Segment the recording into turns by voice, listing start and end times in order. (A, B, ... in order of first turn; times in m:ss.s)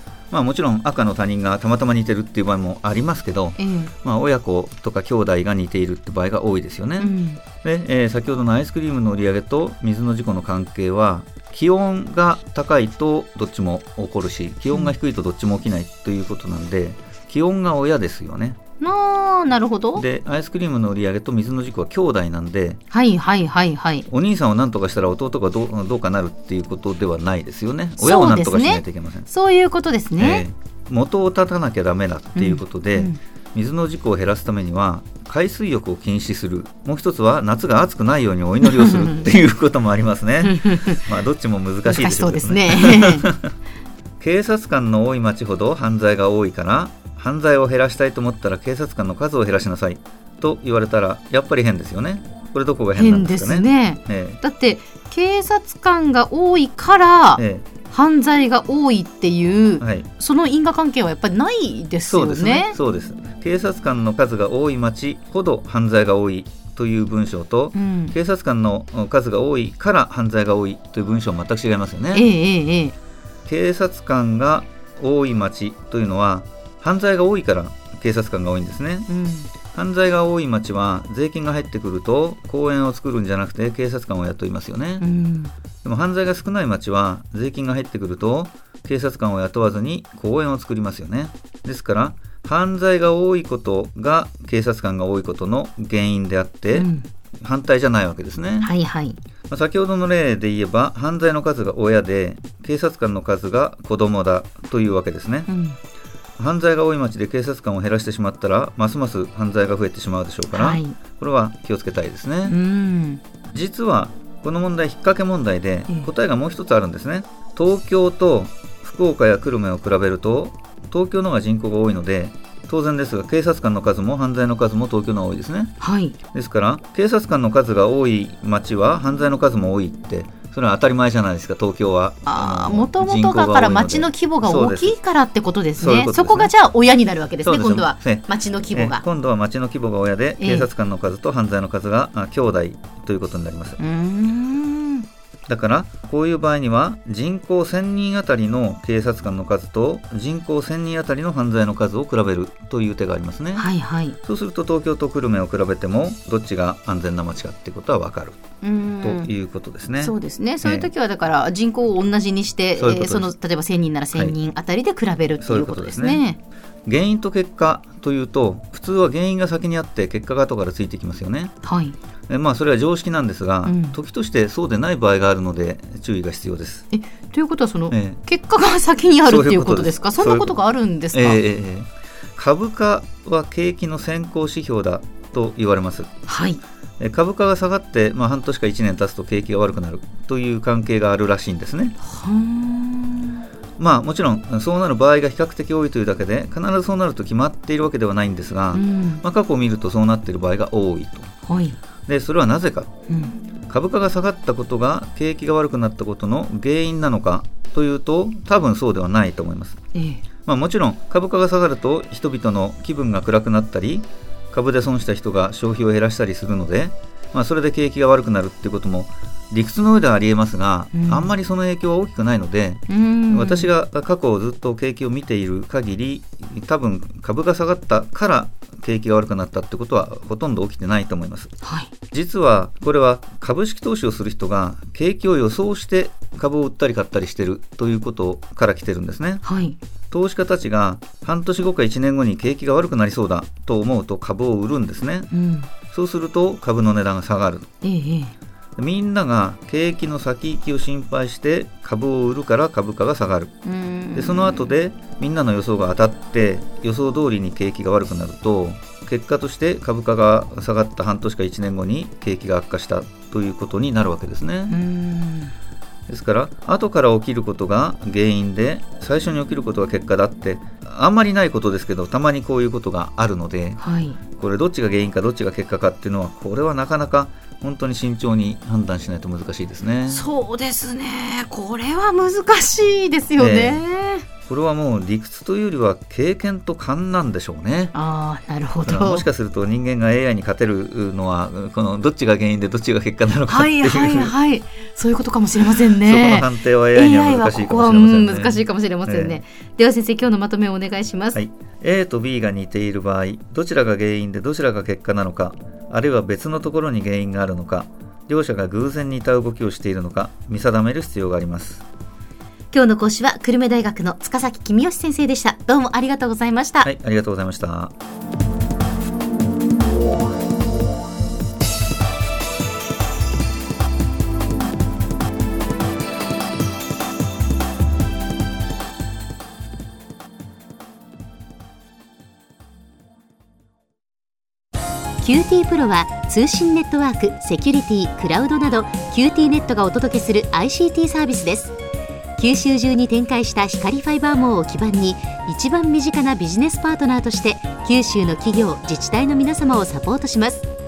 0:00.3-0:18.6 A
0:03.6-0:03.9 B
0:07.0-0:07.4 B
0:18.8-0:20.0 B
0:20.0-0:22.8 A
0:22.9-0:24.1 B
0:24.1-0:29.3 A
0:28.0-0:30.4 B
0:30.2-0:43.5 A
0:32.3-0:33.2 B
0:38.6-0:39.2 B
0:40.4-0:41.0 B
0:41.8-0:43.3 B
0:44.2-0:54.4 A
0:52.9-1:02.8 B
0:57.4-0:57.7 A
0:59.8-1:00.1 A
1:02.1-1:12.3 A
1:07.7-1:08.2 B
1:12.1-1:12.9 B
1:13.4-1:19.1 A
1:19.1-1:19.5 B
1:19.6-1:25.0 A
1:25.0-1:25.5 B
1:25.8-1:36.9 A
1:36.7-1:37.0 B
1:37.4-1:38.7 A
1:38.6-1:39.2 B
1:39.5-1:45.5 A
1:45.5-1:45.8 B
1:46.4-1:52.6 A
1:50.5-1:51.0 B
1:52.4-1:53.2 B
1:53.5-2:05.7 A
2:05.8-2:06.2 B
2:06.3-2:15.0 A
2:12.2-2:19.0 B
2:15.8-2:16.5 A
2:17.4-2:23.8 A
2:20.4-2:20.7 B
2:23.8-2:25.0 B
2:25.5-2:33.7 A
2:33.5-2:34.2 B
2:34.2-2:38.4 A
2:38.6-2:39.3 B
2:39.0-2:40.9 A
2:40.0-2:46.4 B
2:42.8-2:43.3 A
2:45.4-2:46.2 A
2:46.8-2:51.5 A
2:51.6-2:52.0 B
2:52.3-2:56.8 A
2:53.6-2:54.0 B
2:56.9-3:01.4 B
2:57.9-2:58.2 A
2:59.2-3:00.6 A
3:01.1-3:06.1 A
3:06.3-3:06.6 B
3:07.0-3:12.0 A
3:12.0-3:13.4 B
3:13.8-3:21.3 A
3:18.7-3:19.2 B
3:21.4-3:21.8 B
3:22.0-3:23.0 A
3:23.1-3:23.4 B
3:23.6-3:29.8 A
3:29.9-3:30.2 B
3:30.4-3:51.5 A
3:40.9-3:41.3 B
3:42.9-3:43.7 B
3:51.6-3:51.9 B
3:52.1-3:59.4 A
3:59.4-3:59.8 B
4:00.1-4:05.3 A
4:05.3-4:05.7 B
4:05.8-4:07.7 A
4:07.8-4:08.3 B
4:08.8-4:13.5 A
4:13.6-4:14.7 B
4:14.1-4:24.8 A
4:24.7-4:25.5 B
4:26.1-4:40.3 A
4:33.8-4:34.2 B
4:40.0-4:44.3 B
4:43.4-4:43.8 A
4:44.4-4:47.9 A
4:47.9-4:49.2 B
4:48.8-4:54.3 A
4:53.4-5:01.4 B
4:56.0-4:59.4 A
5:01.3-5:11.8 A
5:12.7-5:16.9 B
5:16.8-5:17.9 A
5:35.2-5:41.7 B
5:42.4-5:50.7 B